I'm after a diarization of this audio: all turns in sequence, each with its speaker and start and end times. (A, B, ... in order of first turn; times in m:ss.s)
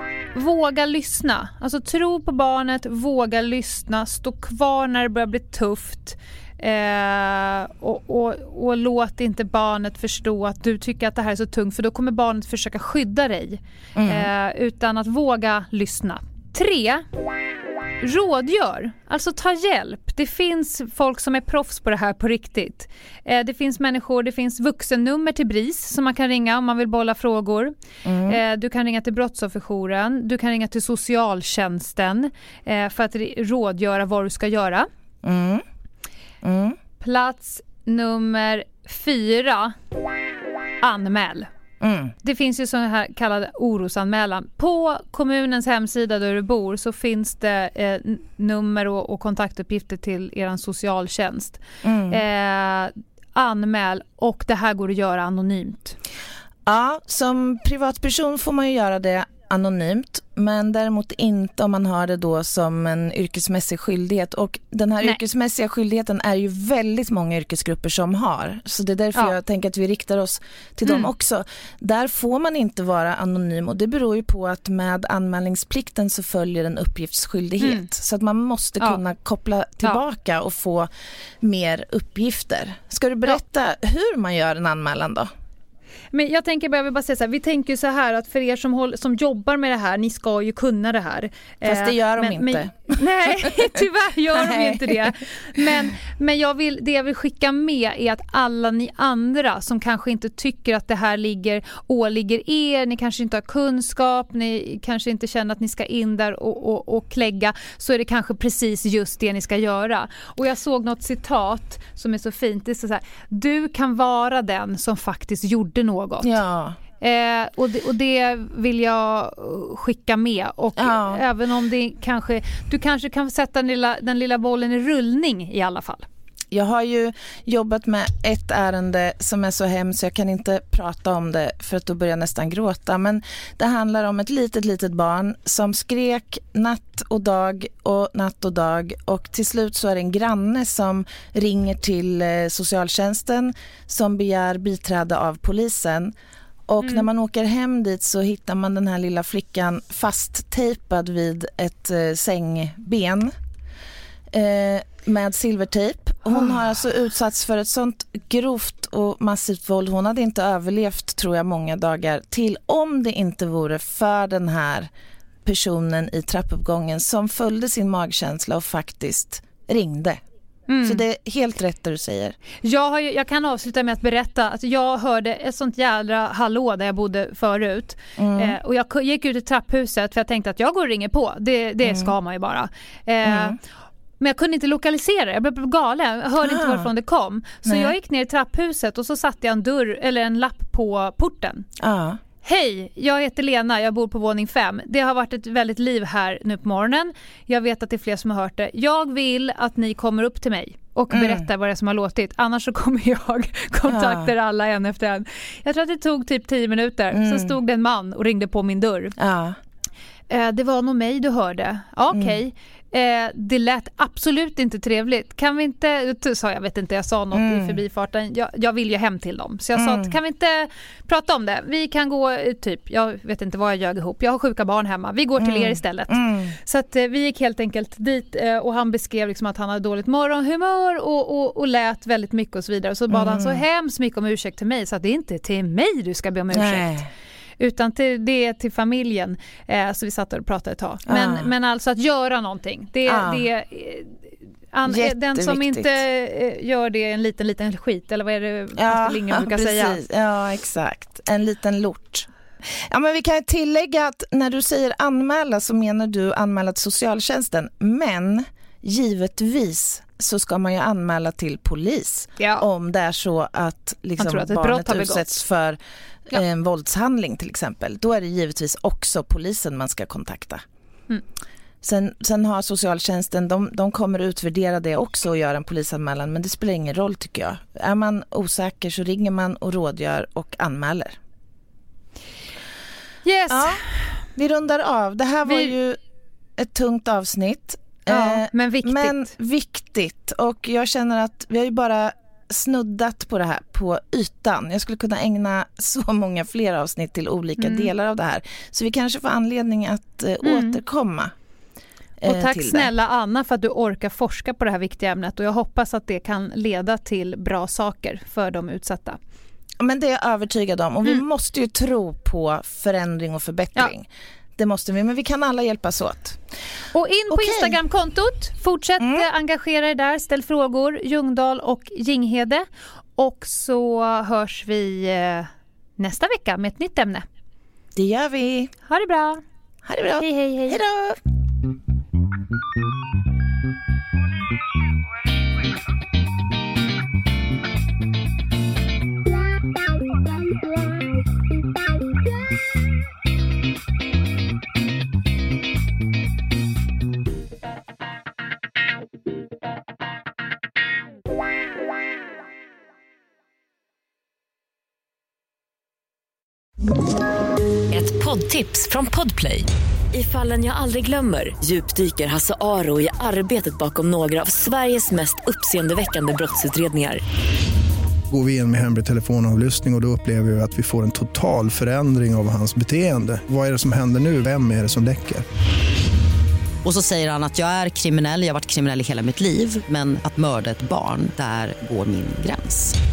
0:00.3-0:17.1 A
0:14.0-0:14.3 B
0:18.0-0:27.7 A
0:28.0-0:28.4 B
0:28.2-0:34.9 A
0:35.2-0:35.6 B
0:36.4-0:36.8 B
0:37.0-0:39.8 A
0:40.8-0:41.5 A
0:41.8-0:42.1 B
0:42.2-0:56.0 A
0:51.8-0:52.2 B
0:56.6-1:20.9 B
1:17.6-1:17.9 A
1:21.4-1:25.3 B
1:26.1-1:56.3 A
1:31.6-1:33.7 B
1:34.3-1:35.0 B
1:56.2-1:56.8 B
1:57.0-2:06.1 A
2:00.8-2:01.2 B
2:06.5-2:26.1 B
2:26.7-2:33.3 B
2:34.3-2:44.9 B
2:45.4-2:50.2 B
2:50.7-2:51.0 A
2:50.8-2:52.4 B
2:52.6-3:03.6 A
2:58.2-2:58.6 B
3:03.2-3:03.6 B
3:04.2-3:11.7 A
3:06.4-3:06.9 B
3:07.6-3:07.9 B
3:11.8-3:12.2 B
3:12.4-3:29.2 A
3:21.1-3:21.4 B
3:23.9-3:24.3 B
3:27.1-3:27.6 B
3:29.2-3:29.6 B
3:30.3-3:57.0 A
3:37.3-3:37.8 B
3:39.7-3:40.1 B
3:45.4-3:46.5 B
3:53.1-3:53.6 B
3:56.5-3:57.1 B
3:57.6-4:04.2 A
4:01.1-4:01.5 B
4:03.0-4:03.4 B
4:04.7-4:10.0 A
4:04.8-4:06.0 B
4:08.8-4:12.3 B
4:12.8-4:25.8 B
4:22.4-4:22.6 A
4:24.2-4:25.2 A
4:26.3-4:30.6 B
4:31.8-4:41.2 B
4:43.2-4:43.9 A
4:43.5-4:43.8 B
4:44.3-4:46.0 B
4:45.4-4:45.7 A
4:46.6-5:01.3 B
4:48.1-4:49.2 A
4:57.6-4:57.9 A
5:00.4-5:00.8 A
5:02.2-5:02.9 B
5:02.2-5:09.2 A
5:09.8-5:16.4 B
5:16.9-5:27.2 A
5:17.3-5:17.8 B
5:19.0-5:19.2 B
5:28.0-5:28.7 B
5:28.9-5:29.4 A
5:29.8-5:31.2 B
5:30.2-5:30.8 A
5:57.9-6:07.2 C
6:08.3-6:15.4 D
6:16.8-6:22.9 E